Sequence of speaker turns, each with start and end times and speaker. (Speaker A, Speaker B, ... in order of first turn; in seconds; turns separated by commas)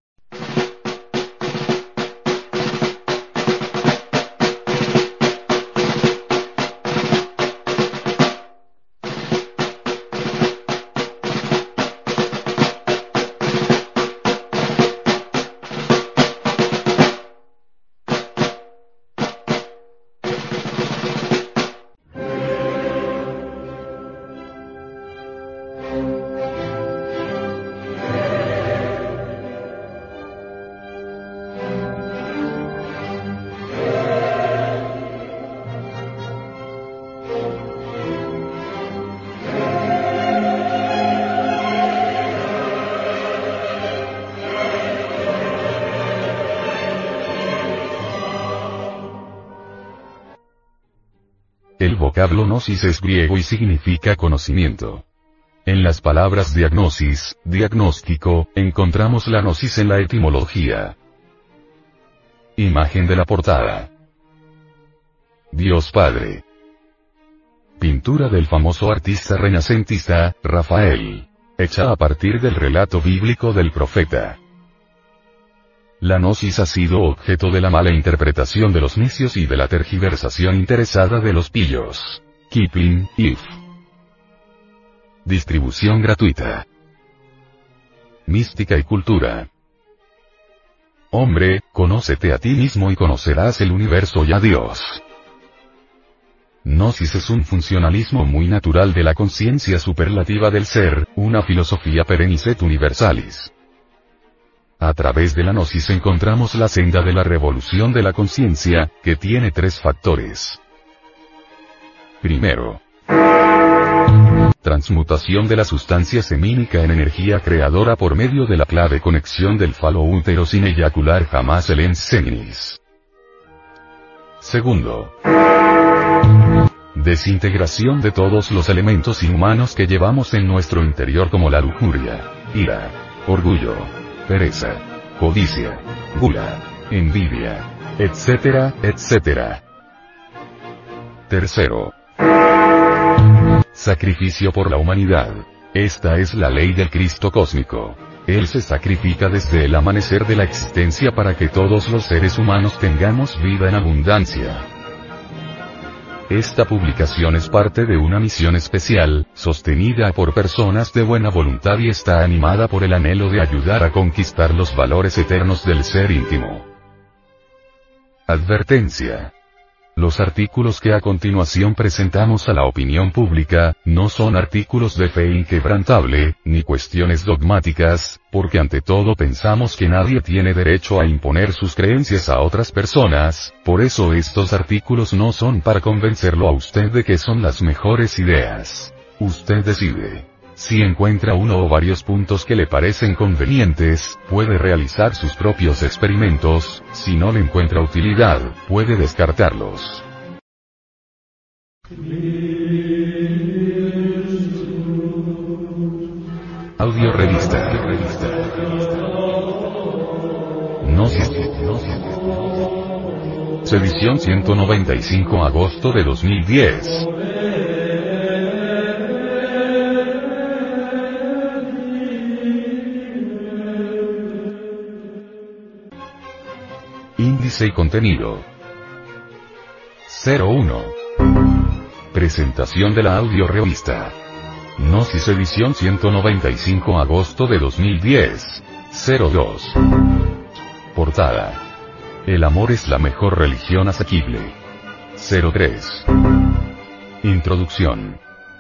Speaker A: 51.8-55.0, Speaker A: 55.6-61.0, Speaker A: 62.6-63.9, Speaker A: 65.5-66.4, Speaker A: 67.8-74.4, Speaker A: 76.0-83.6, Speaker A: 85.2-86.7, Speaker A: 88.2-89.5, Speaker A: 91.1-95.0, Speaker A: 96.6-103.5, Speaker A: 104.8-110.6, Speaker A: 112.2-112.8, Speaker A: 114.6-122.8, Speaker A: 124.4-125.1, Speaker A: 126.9-139.6, Speaker A: 141.3-141.9, Speaker A: 143.7-154.7, Speaker A: 156.3-166.7, Speaker A: 168.3-169.3, Speaker A: 169.9-200.1, Speaker A: 206.8-209.0, Speaker A: 210.8-212.2, Speaker A: 213.6-217.1, Speaker A: 227.2-228.5, Speaker A: 230.1-231.0, Speaker A: 232.1-234.2, Speaker A: 234.8-239.9, Speaker A: 240.9-241.6, Speaker A: 242.2-244.6, Speaker A: 245.1-246.1, Speaker A: 247.2-248.2